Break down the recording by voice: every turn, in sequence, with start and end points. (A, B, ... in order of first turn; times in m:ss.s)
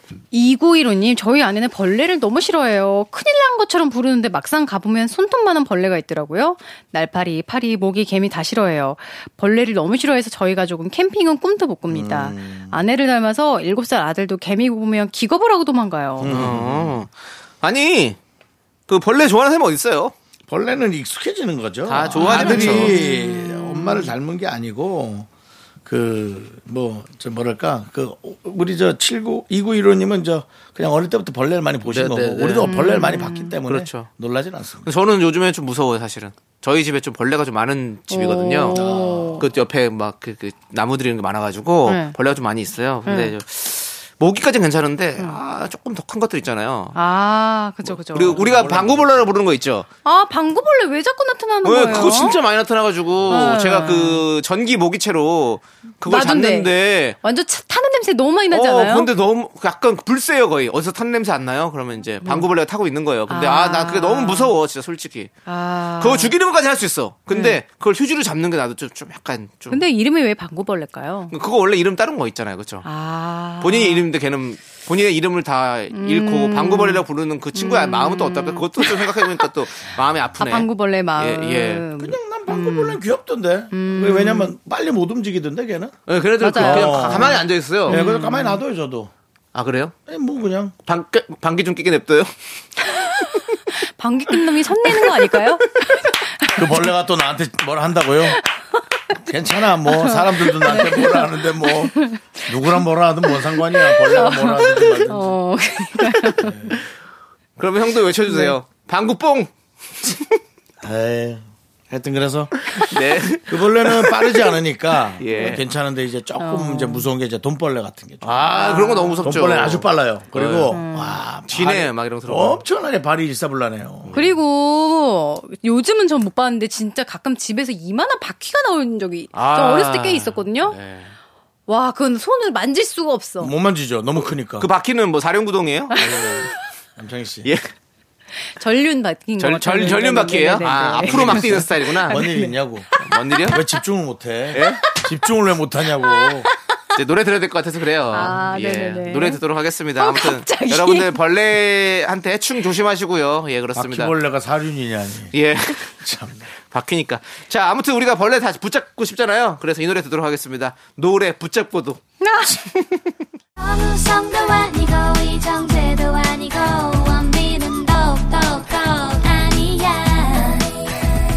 0:00.3-0:16.4 A
0:11.9-0:12.8 B
0:16.2-0:17.0 B
0:16.2-0:18.2 C
0:18.9-0:20.1 C
0:20.5-0:25.3 B
0:21.9-0:23.0 C
0:22.2-0:24.1 A
0:25.8-0:34.9 B
0:31.9-0:32.8 C
0:32.6-0:33.6 A
0:33.6-0:34.1 C
0:34.8-0:38.8 C
0:38.1-0:39.4 A
0:38.7-0:39.4 B
0:39.4-0:47.0 C
0:41.9-0:42.1 A
0:43.0-0:43.4 A
0:46.9-0:48.7 A
0:47.8-0:49.9 C
0:48.3-0:49.3 B
0:50.0-0:52.4 A
0:51.6-0:57.2 C
0:53.3-0:54.2 A
0:56.0-0:59.1 A
0:58.5-1:05.3 C
1:02.2-1:02.5 A
1:03.3-1:04.5 A
1:05.4-1:06.4 A
1:06.0-1:09.8 C
1:07.3-1:07.6 A
1:09.7-1:11.3 A
1:11.3-1:12.9 C
1:12.8-1:14.1 A
1:13.6-1:21.8 C
1:15.9-1:19.5 A
1:20.4-1:23.0 A
1:22.0-1:26.0 B
1:23.7-1:24.5 A
1:26.1-1:28.0 C
1:26.4-1:28.6 A
1:26.5-1:29.1 B
1:29.5-1:29.9 C
1:30.1-1:30.7 B
1:30.9-1:32.3 C
1:32.9-1:36.9 A
1:36.6-1:38.4 B
1:39.2-1:45.4 B
1:39.8-1:46.8 A
1:46.4-1:46.8 B
1:47.6-1:49.5 C
1:48.3-1:48.6 A
1:50.0-1:50.4 C
1:50.8-1:58.4 B
1:52.7-1:54.5 C
1:55.2-1:55.6 C
1:56.4-1:57.1 A
1:58.2-2:00.8 C
1:58.4-1:59.4 A
1:59.2-2:04.2 B
2:00.7-2:01.2 A
2:01.5-2:02.6 C
2:04.1-2:04.4 C
2:04.1-2:10.8 A
2:09.3-2:11.1 C
2:11.7-2:13.5 A
2:13.4-2:14.7 B
2:14.6-2:16.4 C
2:15.9-2:16.6 A
2:16.0-2:17.5 B
2:17.4-2:17.7 C
2:18.6-2:23.7 A
2:19.4-2:22.2 C
2:21.0-2:22.9 B
2:23.0-2:23.6 C
2:23.5-2:26.5 B
2:24.5-2:24.8 C
2:26.0-2:26.5 A
2:26.9-2:34.1 C
2:28.1-2:29.4 A
2:30.0-2:31.2 A
2:33.7-2:35.3 B
2:35.3-2:36.0 C
2:35.9-2:36.5 B
2:36.7-2:42.0 C
2:42.2-2:42.8 A
2:43.6-2:50.8 D